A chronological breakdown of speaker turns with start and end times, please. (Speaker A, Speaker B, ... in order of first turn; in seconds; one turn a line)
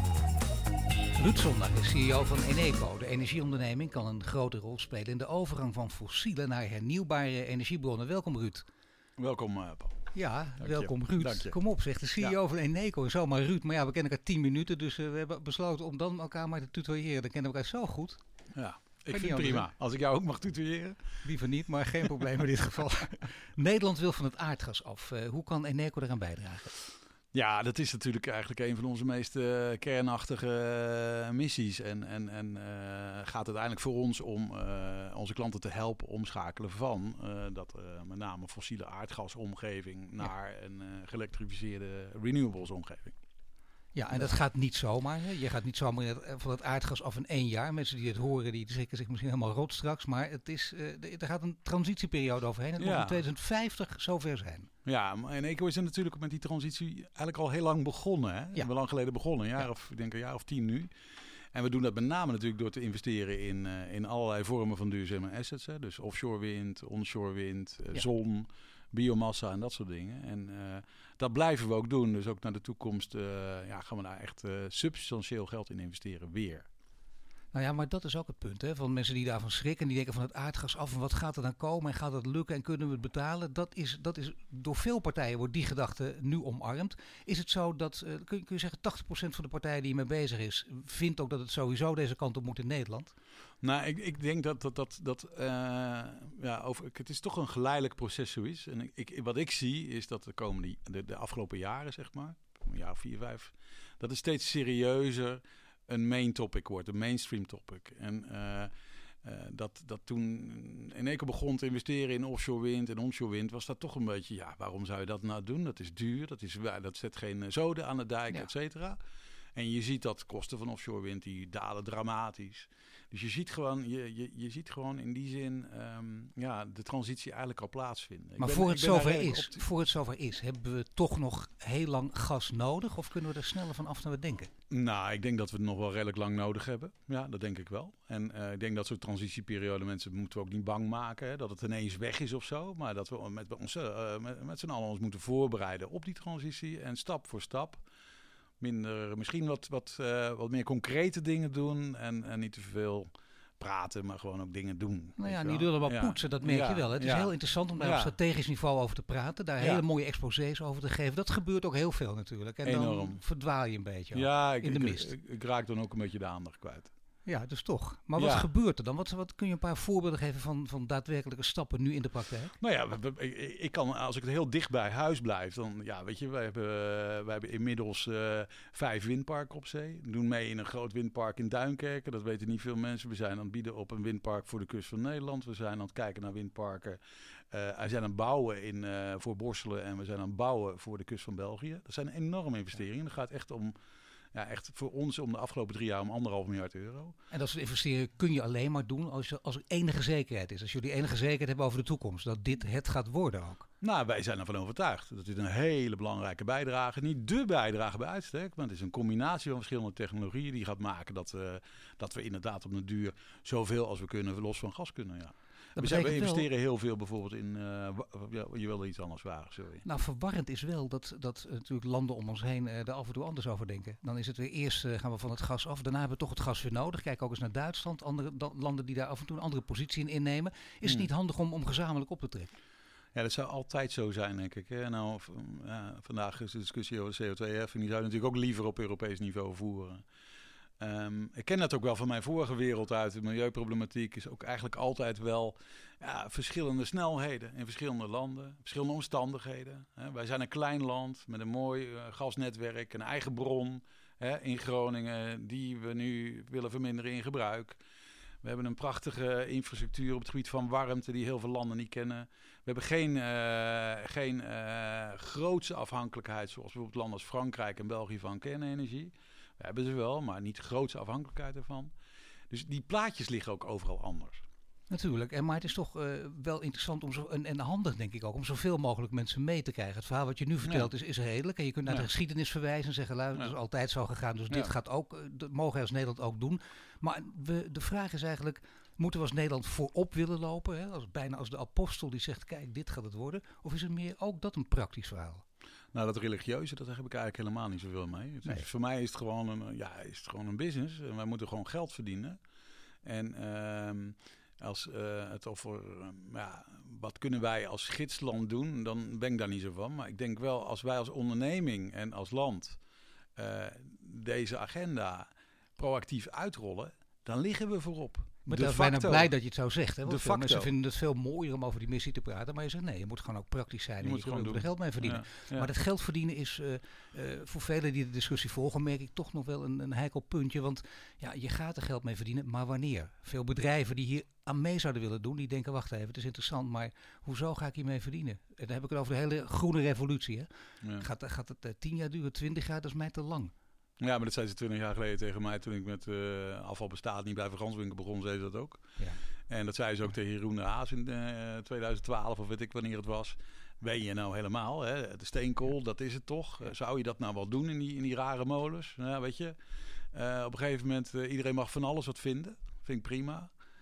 Speaker A: 1.1-8.6
Speaker B: 9.2-11.6
Speaker A: 10.1-18.2
Speaker B: 18.5-21.2
Speaker A: 19.1-19.7
Speaker A: 21.2-26.7
Speaker B: 27.3-43.1
Speaker A: 43.9-54.7
Speaker B: 52.8-53.2
Speaker B: 54.8-76.7
Speaker A: 77.5-93.1
Speaker B: 93.6-108.7
Speaker B: 109.2-119.0
Speaker B: 119.5-129.6
Speaker A: 128.4-134.5
Speaker B: 134.7-147.8
Speaker B: 148.6-158.1
Speaker A: 155.2-165.1
Speaker B: 162.6-163.2
Speaker B: 164.1-166.9
Speaker A: 167.2-172.6
Speaker B: 168.2-168.5
Speaker B: 172.6-193.7
Speaker B: 194.3-197.1
Speaker A: 197.3-203.7
Speaker B: 203.8-219.8
Speaker A: 215.8-216.5
Speaker A: 219.8-232.5
Speaker B: 233.1-240.0
Speaker B: 240.8-257.8
Speaker B: 258.4-271.9
Speaker B: 272.5-274.4
Speaker A: 274.9-295.4
Speaker B: 280.6-280.9
Speaker B: 295.9-302.4
Speaker B: 303.0-312.8
Speaker B: 313.4-319.3
Speaker A: 318.4-343.5
Speaker B: 320.0-320.7
Speaker B: 324.0-325.7
Speaker B: 344.0-348.9
Speaker A: 349.0-349.2
Speaker B: 349.5-359.6
Speaker B: 360.1-363.5